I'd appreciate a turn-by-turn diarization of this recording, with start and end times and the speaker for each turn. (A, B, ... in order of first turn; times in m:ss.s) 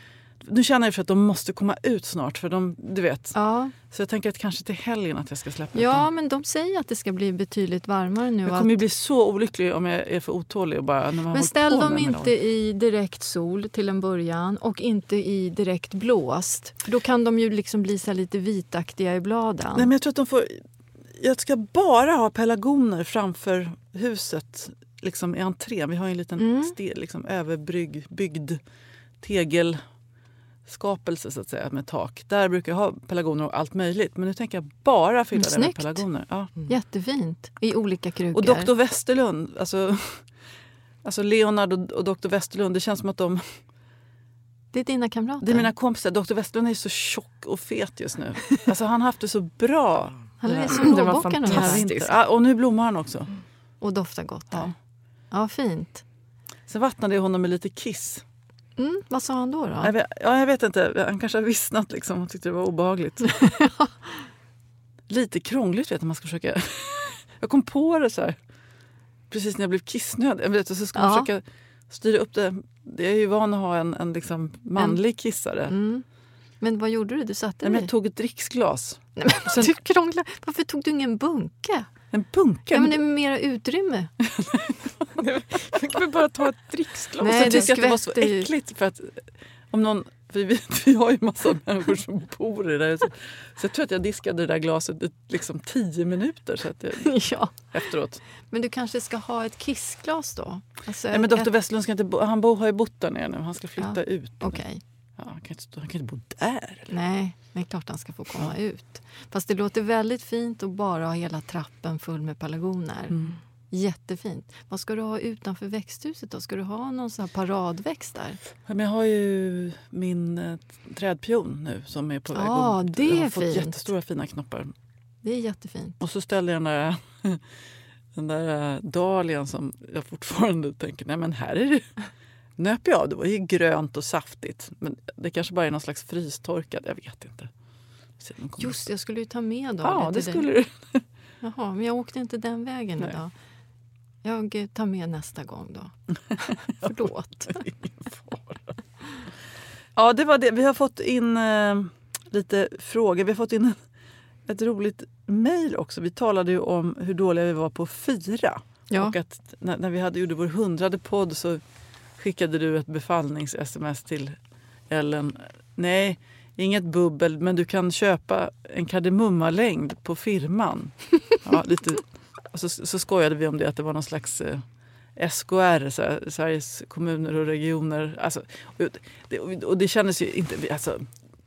0:00.4-0:03.4 A
0:03.3-0:03.8 B
0:03.9-0:06.1 A
0:05.7-0:08.8 B
0:08.4-0:12.3 A
0:11.3-0:19.9 B
0:19.7-0:20.6 A
0:21.2-0:28.6 A
0:26.4-0:26.8 B
0:29.2-0:29.8 A
0:30.7-0:36.5 A
0:35.3-0:36.0 B
0:36.6-0:38.7 B
0:38.3-0:40.3 A
0:41.0-0:43.6 A
0:44.7-0:45.7 B
0:45.4-0:53.3 A
0:50.4-0:51.9 B
0:50.7-0:52.2 C
0:53.8-0:54.7 B
0:55.3-0:56.0 B
0:56.7-0:58.2 A
0:58.8-0:59.9 B
0:59.8-1:03.4 A
1:03.4-1:03.9 B
1:05.1-1:08.4 A
1:09.3-1:15.7 A
1:11.0-1:11.3 B
1:15.7-1:16.0 B
1:16.6-1:17.9 B
1:17.6-1:19.7 A
1:19.2-1:21.9 B
1:22.1-1:23.0 A
1:22.7-1:24.1 B
1:24.2-1:25.1 A
1:25.2-1:27.7 C
1:27.2-1:28.5 B
1:27.2-1:37.2 A
1:37.0-1:37.7 B
1:37.7-1:38.2 A
1:38.5-1:41.5 B
1:41.1-1:44.6 A
1:43.8-1:44.8 B
1:45.2-1:46.9 A
1:46.9-1:53.2 B
1:53.7-1:58.4 B
1:58.7-2:04.7 A
2:02.3-2:03.9 B
2:05.2-2:06.0 B
2:06.0-2:07.4 A
2:08.1-2:11.9 A
2:12.6-2:17.5 A
2:18.2-2:18.8 A
2:18.6-2:20.5 B
2:19.8-2:21.0 A
2:21.4-2:23.3 B
2:24.2-2:27.6 B
2:27.5-2:28.6 A
2:30.0-2:33.8 A
2:34.5-2:41.6 A
2:38.9-2:39.2 B
2:42.2-2:44.4 A
2:44.9-2:54.6 A
2:55.2-3:01.1 A